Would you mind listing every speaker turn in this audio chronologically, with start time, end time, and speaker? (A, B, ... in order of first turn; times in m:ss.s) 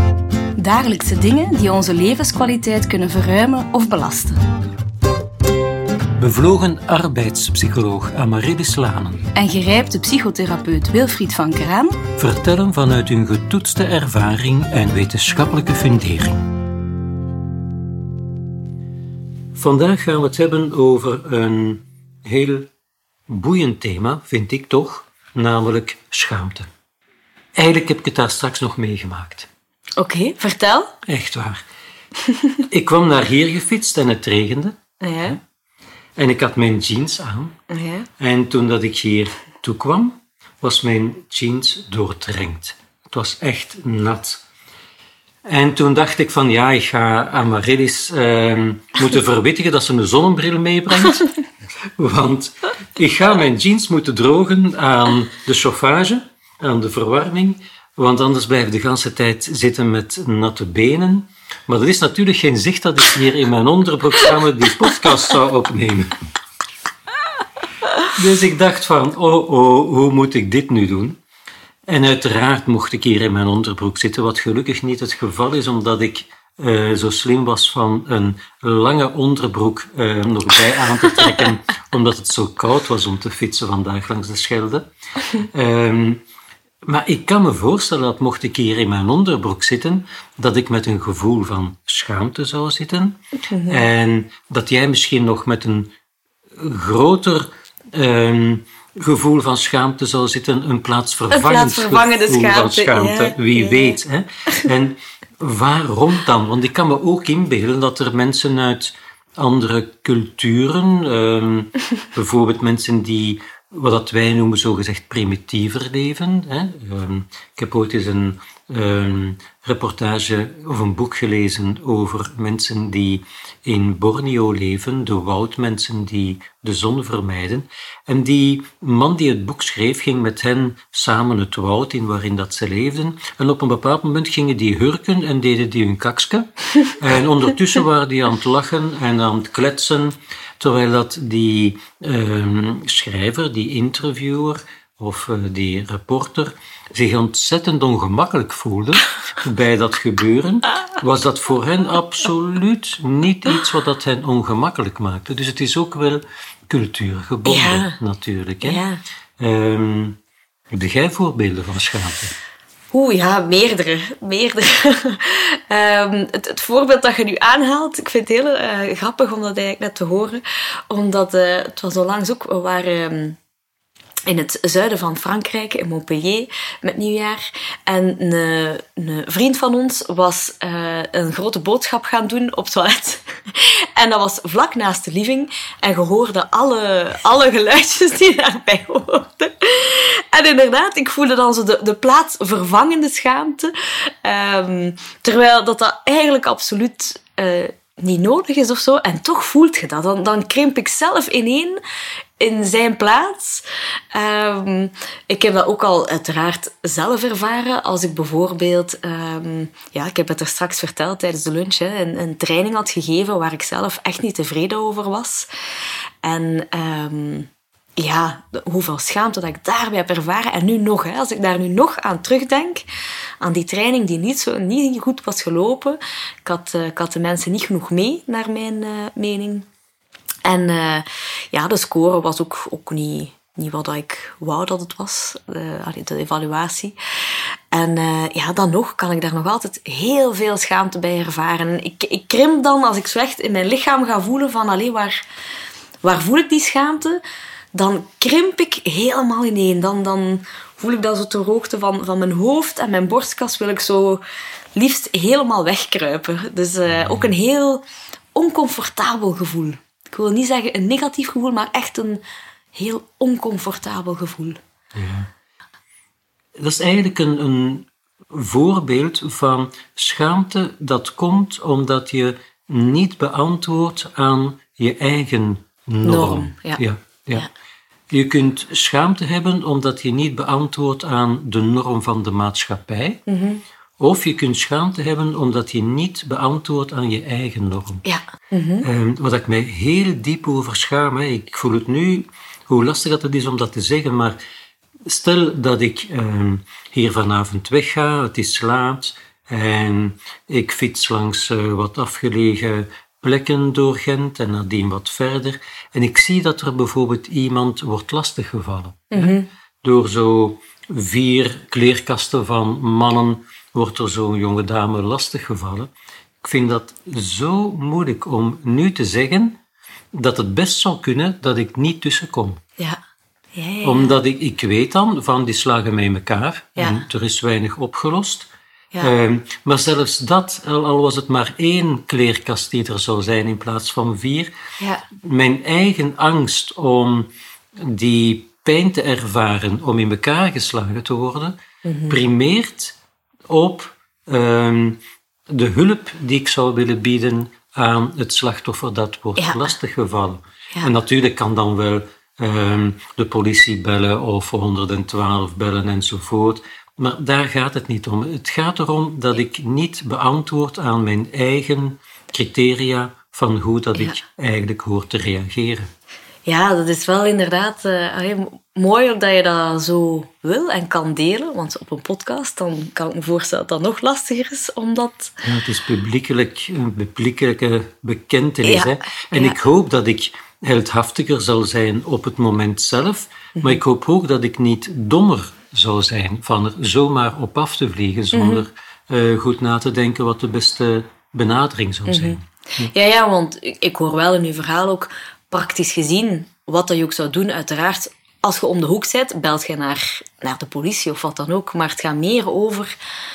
0:00.6-0:04.4 A
0:06.2-0:09.3 B
0:09.3-0:12.0 A
0:12.2-0:16.4 B
0:19.5-0:22.7 B
0:23.3-0:26.7 B
0:27.6-0:29.5 B
0:30.0-0:31.0 A
0:31.0-0:31.6 B
0:32.2-0:32.6 A
0:32.7-0:35.4 B
0:35.0-0:35.4 A
0:36.2-0:37.6 B
0:37.7-0:38.1 A
0:38.2-0:44.4 B
0:45.4-0:51.4 B
0:52.0-1:06.1 B
1:08.0-1:11.2 B
1:11.9-1:26.2 B
1:26.9-1:35.9 B
1:33.5-1:33.8 A
1:36.6-2:38.8 B
1:41.3-1:44.0 A
2:37.4-2:38.0 A
2:38.6-2:39.0 A
2:39.4-2:40.2 B
2:40.7-2:42.3 B
2:42.9-2:53.4 A
2:54.3-3:21.8 A
3:22.4-3:35.5 A
3:36.2-3:42.8 A
3:43.4-3:49.6 A
3:50.4-4:05.2 A
4:06.0-4:07.2 A
4:07.7-4:14.2 A
4:14.7-4:17.8 A
4:16.9-4:17.3 B
4:18.3-4:22.2 A
4:22.7-4:24.6 A
4:24.9-4:25.3 B
4:26.6-4:37.5 B
4:36.0-4:36.8 A
4:38.1-4:43.2 B
4:43.3-4:43.6 A
4:44.0-4:48.0 B
4:48.0-4:48.8 A
4:48.8-4:54.4 B
4:55.1-5:15.9 B
5:09.1-5:09.5 A
5:16.4-5:19.6 B
5:20.1-5:22.6 B
5:23.5-5:24.1 A
5:23.8-5:34.5 B
5:34.8-5:35.0 A
5:35.1-5:41.6 B
5:41.8-5:42.2 A
5:42.1-5:43.0 B
5:43.5-6:05.9 B
5:49.4-5:49.7 A
6:06.4-6:15.4 A
6:15.4-6:32.9 B
6:18.6-6:19.6 A
6:28.3-6:28.6 A
6:32.0-6:42.9 A